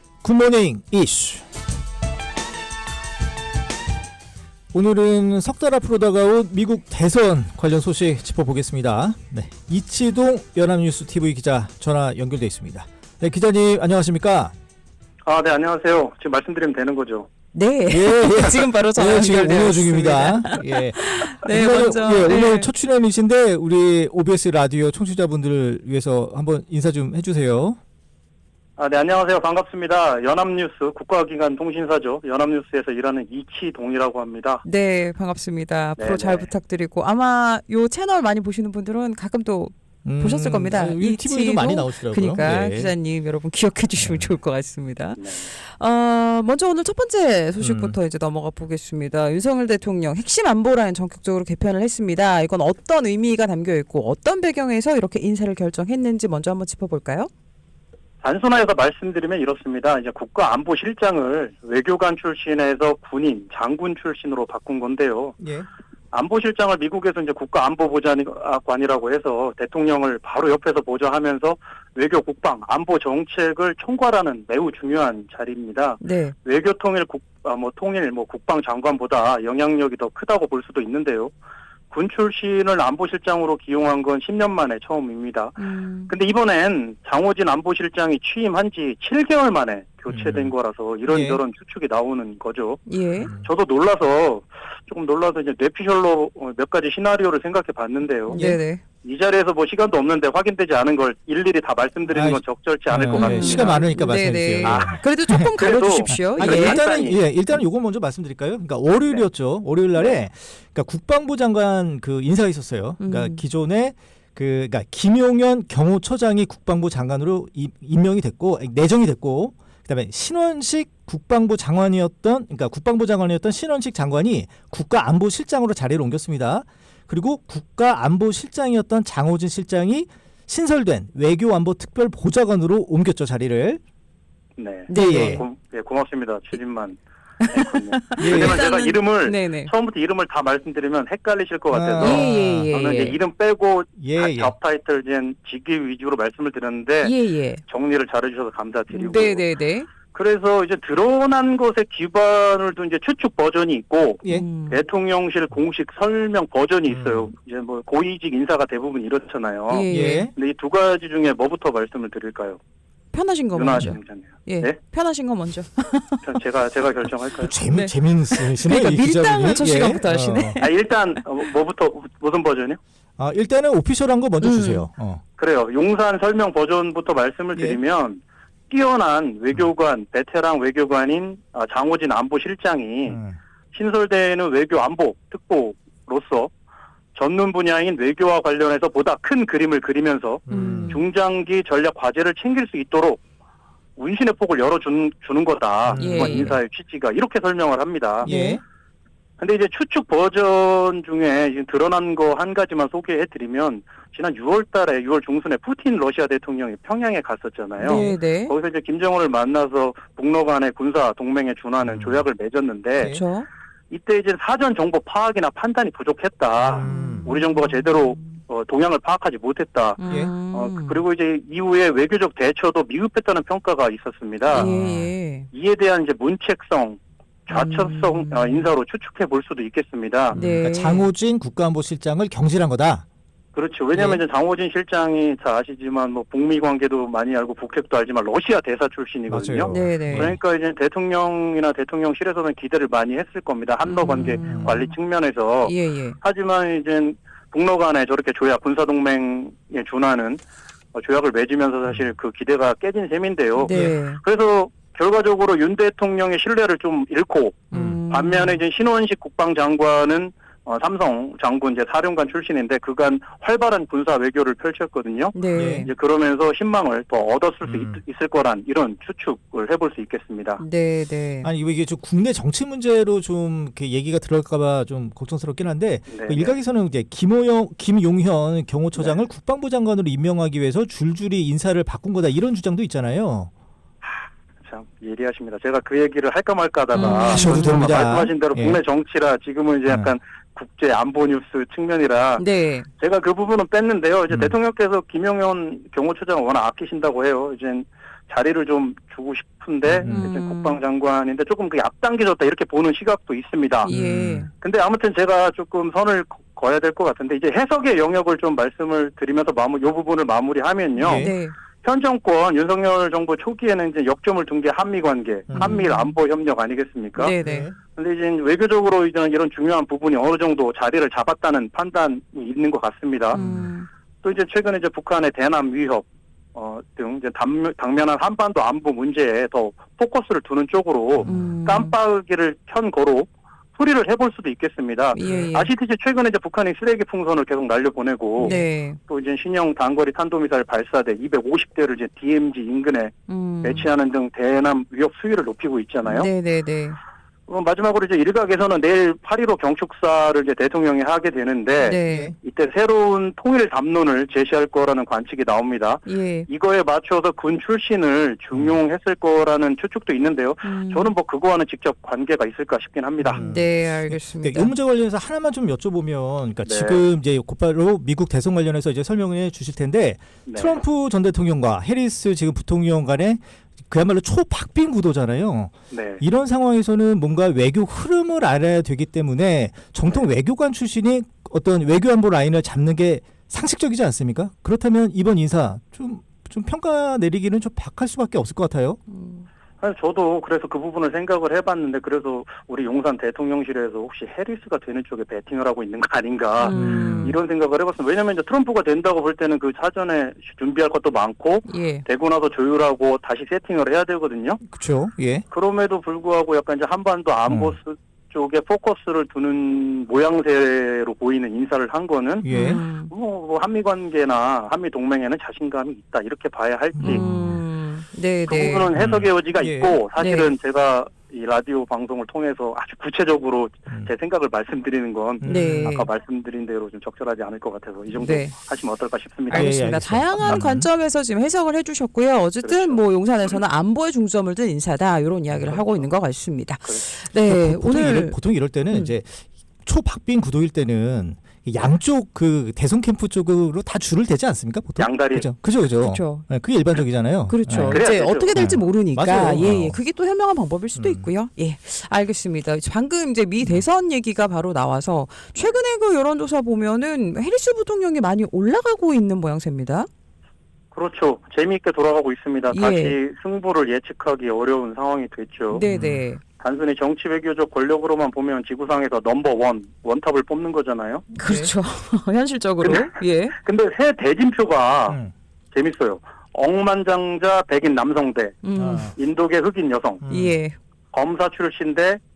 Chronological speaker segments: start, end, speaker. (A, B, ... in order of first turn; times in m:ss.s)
0:00.2-0:01.4 A
0:04.7-0:14.5 A
0:15.2-0:17.3 B
0:17.5-0:22.7 C
0:17.9-0:27.8 A
0:28.8-0:34.6 B
0:34.6-0:57.3 C
0:36.0-0:36.5 B
0:40.0-0:42.9 A
0:44.0-0:44.3 A
0:45.2-0:45.5 B
0:47.6-0:48.0 A
0:58.2-1:05.4 B
1:05.4-1:05.7 A
1:06.1-1:21.3 B
1:16.0-1:16.3 C
1:21.9-1:32.9 B
1:25.6-1:26.1 C
1:30.1-1:30.5 A
1:31.1-1:31.4 A
1:32.9-1:33.3 C
1:33.2-1:33.4 A
1:33.4-1:43.9 B
1:38.3-1:38.8 C
1:42.1-1:45.4 A
1:43.1-1:46.8 C
1:44.6-1:45.0 B
1:45.6-1:47.2 B
1:46.1-2:13.8 A
1:53.0-1:53.4 C
2:14.6-2:17.0 B
2:14.9-2:15.4 C
2:14.9-2:15.4 A
2:17.4-2:19.7 C
2:17.5-2:27.1 B
2:18.2-2:18.6 A
2:21.7-2:22.7 A
2:22.0-2:23.2 C
2:24.0-2:24.5 A
2:27.0-2:27.6 C
2:27.7-2:29.4 B
2:28.9-2:29.9 C
2:30.1-2:42.6 B
2:34.3-2:34.8 C
2:36.9-2:37.3 A
2:39.7-2:40.3 C
2:39.9-2:40.3 A
2:43.1-2:46.2 C
2:43.5-2:44.8 B
2:46.2-2:47.5 B
2:47.4-2:50.6 A
2:47.7-2:51.2 C
2:50.6-2:52.8 B
2:53.2-2:55.2 A
2:54.4-2:54.9 C
2:55.4-3:03.2 B
3:03.0-3:03.4 A
3:03.7-3:06.5 B
3:07.1-3:13.2 B
3:10.5-3:11.0 A
3:10.5-3:11.0 C
3:14.0-3:18.3 B
3:15.8-3:16.6 A
3:15.9-3:16.6 C
3:18.2-3:18.6 A
3:18.2-3:18.6 C
3:19.4-3:33.1 B
3:27.8-3:28.5 C
3:27.9-3:28.1 A
3:31.8-3:32.2 A
3:33.0-3:33.5 C
3:33.9-3:44.7 B
3:36.6-3:37.3 A
3:36.8-3:38.3 C
3:40.0-3:41.0 C
3:44.5-3:45.5 C
3:44.5-3:45.1 A
3:45.5-3:50.4 B
3:47.5-3:48.7 C
3:50.3-3:51.1 C
3:50.3-3:53.0 A
3:53.5-4:10.4 B
3:53.9-3:54.2 A
3:59.3-4:00.4 A
3:59.7-4:00.3 C
4:03.8-4:04.9 C
4:04.4-4:04.8 A
4:05.6-4:06.2 C
4:10.9-4:30.6 B
4:13.6-4:14.2 C
4:13.7-4:13.9 A
4:17.7-4:18.6 C
4:17.7-4:18.0 A
4:25.3-4:25.9 C
4:25.5-4:25.9 A
4:27.6-4:28.0 A
4:30.6-4:31.5 C
4:31.4-4:43.5 A
4:36.1-4:36.6 B
4:44.0-4:52.4 B
4:46.9-4:47.8 C
4:47.0-4:48.8 A
4:52.4-4:52.9 C
4:53.0-5:03.9 B
4:59.8-5:00.3 A
5:00.0-5:00.8 C
5:03.8-5:04.5 C
5:03.9-5:04.5 A
5:04.6-5:11.3 B
5:11.0-5:11.3 A
5:11.1-5:11.5 C
5:11.8-5:17.4 B
5:15.5-5:15.8 A
5:15.5-5:16.2 C
5:17.2-5:17.7 C
5:17.4-5:17.8 A
5:17.9-5:23.4 B
5:23.3-5:23.9 C
5:23.4-5:23.7 A
5:24.2-5:46.3 B
5:31.2-5:31.6 A
5:31.2-5:31.9 C
5:35.1-5:35.7 C
5:35.2-5:35.5 A
5:38.4-5:39.0 C
5:43.3-5:43.9 C
5:46.0-5:47.0 C
5:47.5-6:03.5 B
5:51.8-5:52.3 C
5:52.0-5:52.3 A
5:56.0-5:56.5 C
6:00.6-6:01.1 C
6:03.2-6:29.0 A
6:03.4-6:04.7 C
6:06.6-6:07.0 B
6:10.4-6:10.8 B
6:15.9-6:16.2 B
6:29.1-6:29.5 C
6:29.8-6:44.6 B
6:36.6-6:37.4 C
6:36.7-6:37.4 A
6:41.6-6:42.0 C
6:44.7-6:45.4 A
6:45.5-6:52.5 B
6:47.5-6:47.7 A
6:52.4-6:52.8 A
6:52.5-6:53.1 C
6:53.0-6:57.2 B
6:57.0-6:57.6 A
6:57.0-6:58.9 C
6:58.4-7:09.7 B
6:58.9-7:00.0 A
7:00.2-7:00.5 C
7:05.4-7:06.0 A
7:05.4-7:06.1 C
7:08.1-7:08.5 C
7:09.5-7:18.4 C
7:09.5-7:10.9 A
7:12.6-7:13.0 B
7:15.6-7:16.1 B
7:17.4-7:28.0 A
7:25.0-7:25.5 B
7:26.0-7:26.4 C
7:27.5-7:40.1 C
7:27.7-7:28.6 B
7:28.5-7:30.0 A
7:31.0-7:31.2 A
7:40.9-7:45.8 B
7:42.7-7:43.2 C
7:45.7-7:46.4 C
7:45.8-7:46.2 A
7:46.6-7:51.3 B
7:51.3-7:53.6 C
7:51.4-7:51.7 A
7:52.8-7:55.2 B
7:55.7-7:58.6 B
7:58.6-7:59.1 C
7:58.8-7:59.1 A
7:59.1-8:00.2 B
8:00.2-8:00.6 A
8:00.3-8:00.8 C
8:01.1-8:02.2 B